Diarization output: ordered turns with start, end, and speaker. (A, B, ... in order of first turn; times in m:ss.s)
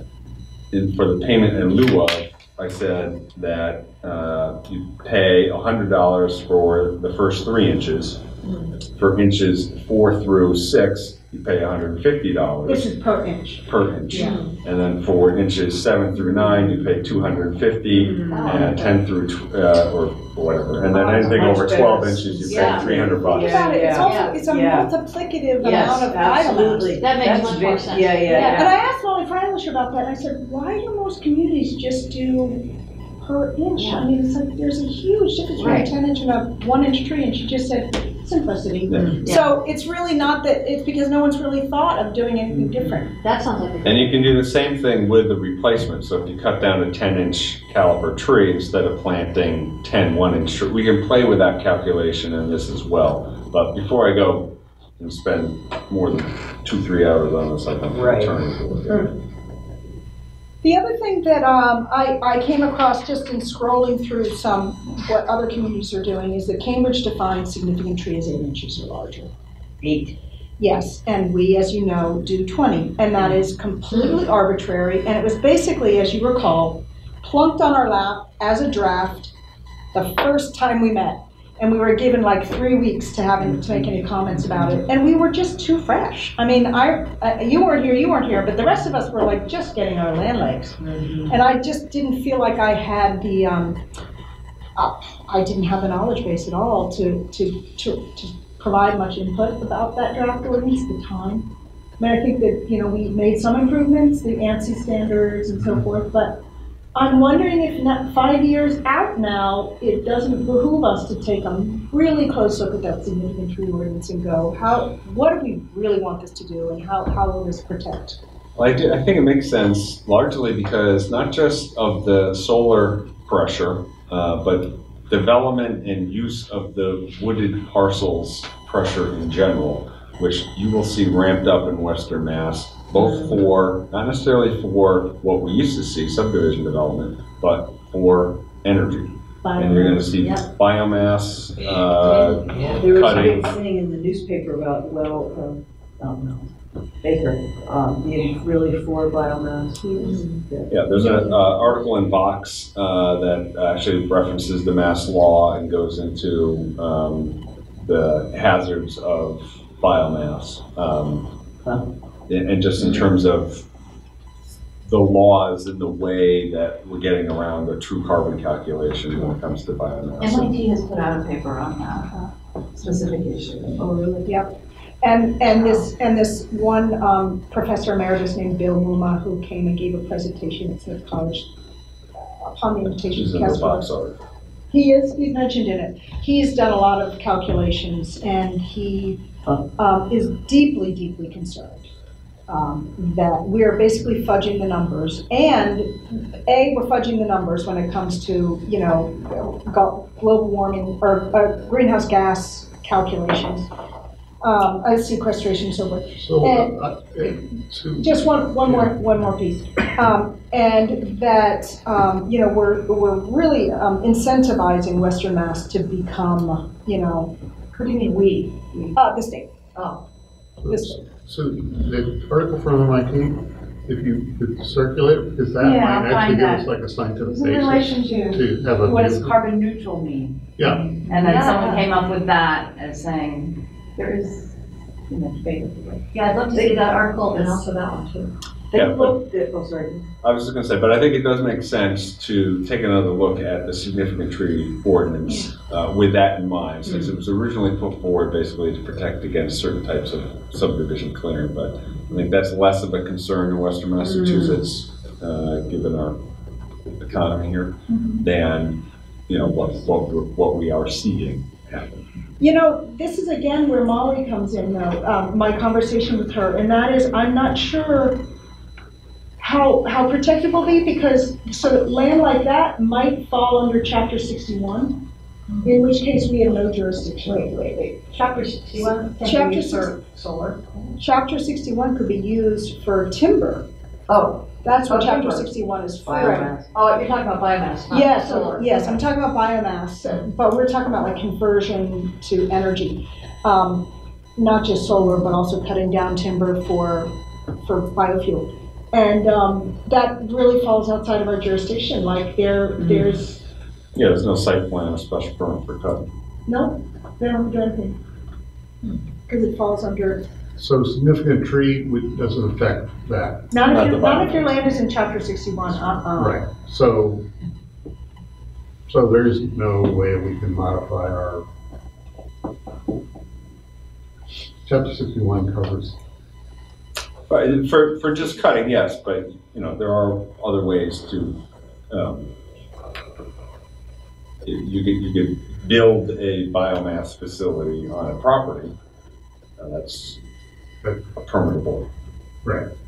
0:00.7-0:08.2 A
0:08.9-0:12.9 A
0:12.6-0:14.4 B
0:13.6-0:23.8 A
0:14.1-0:14.5 C
0:17.9-0:18.7 D
0:18.3-0:19.0 C
0:20.9-0:24.9 D
0:21.0-0:21.5 B
0:22.5-0:23.0 E
0:22.5-0:22.8 C
0:23.2-0:27.0 B
0:23.9-0:24.3 E
0:24.0-0:24.3 C
0:25.6-0:28.7 D
0:27.0-0:28.7 C
0:28.2-0:28.6 E
0:28.4-0:32.7 B
0:33.2-0:43.1 B
0:35.6-0:35.9 E
0:38.9-0:39.2 A
0:38.9-0:39.2 D
0:42.5-0:43.1 D
0:43.2-0:44.2 C
0:43.8-0:59.1 A
0:57.9-0:59.1 D
1:00.6-1:09.3 B
1:09.8-1:10.2 D
1:10.6-1:19.3 B
1:19.9-1:33.8 B
1:23.4-1:24.8 D
1:30.8-1:31.4 D
1:34.8-1:41.5 B
1:42.0-1:46.4 B
1:46.9-1:58.2 B
1:58.6-2:23.5 A
2:12.9-2:13.4 D
2:19.6-2:20.0 B
2:19.8-2:20.4 C
2:22.6-2:26.5 D
2:27.0-2:31.4 D
2:30.1-2:30.4 C
2:30.7-2:41.3 A
2:30.9-2:31.6 B
2:42.3-2:43.6 A
2:42.8-2:43.0 D
2:44.8-2:50.6 A
2:50.2-2:53.9 E
2:54.2-3:01.5 B
3:02.2-3:03.9 B
3:02.9-3:04.2 A
3:04.7-3:09.2 B
3:09.8-3:11.9 B
3:12.5-3:23.7 B
3:24.4-3:26.7 B
3:26.1-3:29.3 F
3:28.0-3:37.4 B
3:37.7-3:38.9 E
3:38.9-3:39.5 B
3:40.6-3:49.4 F
3:40.6-3:41.0 B
3:45.6-3:46.6 E
3:47.2-3:54.6 E
3:50.6-3:50.9 F
3:50.9-3:51.9 C
3:55.1-3:57.7 E
3:56.1-3:58.3 C
3:58.7-4:00.1 D
3:58.7-3:59.2 A
4:00.2-4:16.2 A
4:06.8-4:07.1 D
4:14.0-4:14.7 D
4:17.0-4:22.0 A
4:22.4-4:28.2 B
4:29.4-4:35.0 B
4:35.5-4:35.8 C
4:35.6-4:37.9 B
4:37.2-4:40.9 C
4:38.8-4:40.0 B
4:41.0-4:43.7 B
4:44.1-4:45.5 C
4:44.6-4:46.5 B
4:46.0-4:46.7 D
4:46.1-4:49.0 C
4:47.9-4:57.1 B
4:57.6-5:03.4 B
5:02.8-5:03.2 D
5:03.9-5:06.1 A
5:06.5-5:08.0 B
5:09.3-5:10.2 B
5:10.6-5:13.5 F
5:13.5-5:16.4 B
5:13.7-5:14.5 A
5:16.2-5:17.2 F
5:18.9-5:21.4 F
5:24.6-5:26.0 F
5:27.3-5:31.4 A
5:31.9-5:32.3 A
5:34.4-5:38.7 A
5:39.6-5:40.2 A
5:41.2-5:41.9 A
5:42.4-5:42.7 F